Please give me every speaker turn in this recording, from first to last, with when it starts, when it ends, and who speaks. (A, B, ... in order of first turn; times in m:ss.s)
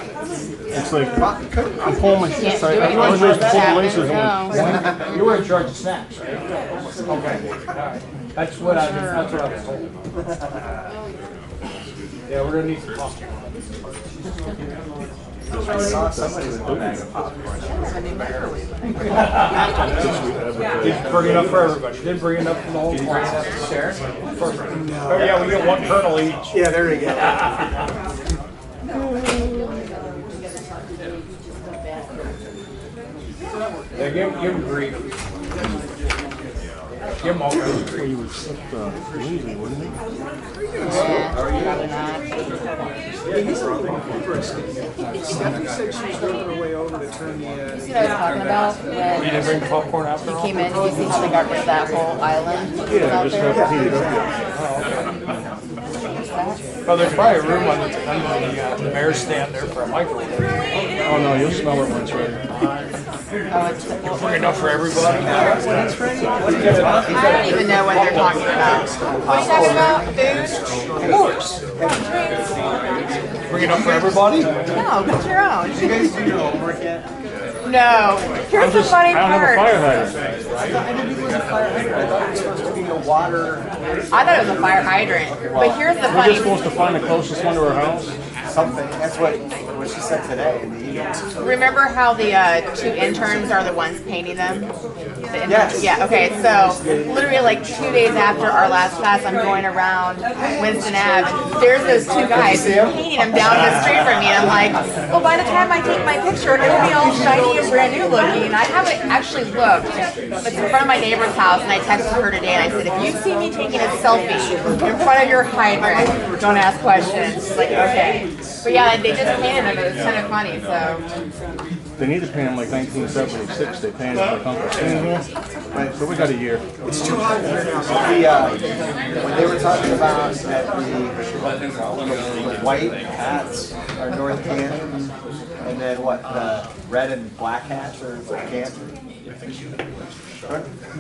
0:00.7-0:04.8 A
0:01.1-0:02.2 B
0:02.2-0:05.2 C
0:02.8-0:03.8 B
0:03.3-0:03.6 D
0:04.5-0:06.2 D
0:07.0-0:09.9 D
0:08.7-0:09.3 C
0:12.3-0:13.3 D
0:15.5-0:17.0 A
0:15.5-0:18.1 B
0:17.7-0:19.3 C
0:19.1-0:19.7 D
0:19.6-0:21.8 A
0:20.8-0:26.6 D
0:24.8-0:25.7 B
0:26.5-0:27.4 B
0:34.0-0:35.1 D
0:37.2-0:38.1 D
0:37.7-0:40.0 A
0:40.8-0:42.3 C
0:40.8-0:41.8 B
0:43.3-0:44.0 B
0:45.3-0:45.6 D
0:47.7-0:54.1 C
0:49.2-0:50.9 D
0:52.8-0:54.3 A
0:53.4-0:54.3 B
0:54.5-0:55.1 D
0:56.1-0:57.4 C
0:56.8-1:00.6 D
1:01.0-1:02.5 A
1:03.5-1:04.8 C
1:04.1-1:05.8 D
1:05.0-1:10.4 B
1:06.4-1:09.0 D
1:06.9-1:10.7 C
1:11.0-1:12.2 B
1:11.0-1:11.5 D
1:11.8-1:12.6 C
1:13.5-1:14.8 D
1:13.6-1:14.5 B
1:14.7-1:16.3 C
1:15.6-1:17.1 B
1:17.6-1:20.1 C
1:18.5-1:20.2 A
1:20.5-1:26.0 B
1:24.1-1:26.7 C
1:26.0-1:28.1 A
1:28.4-1:31.6 B
1:31.4-1:34.7 C
1:35.2-2:01.0 C
1:35.4-1:36.0 B
1:42.2-1:43.0 B
2:02.0-2:05.2 A
2:05.7-2:06.3 B
2:05.9-2:06.6 A
2:06.8-2:08.6 B
2:09.1-2:15.1 B
2:15.6-2:18.9 B
2:20.4-2:20.7 B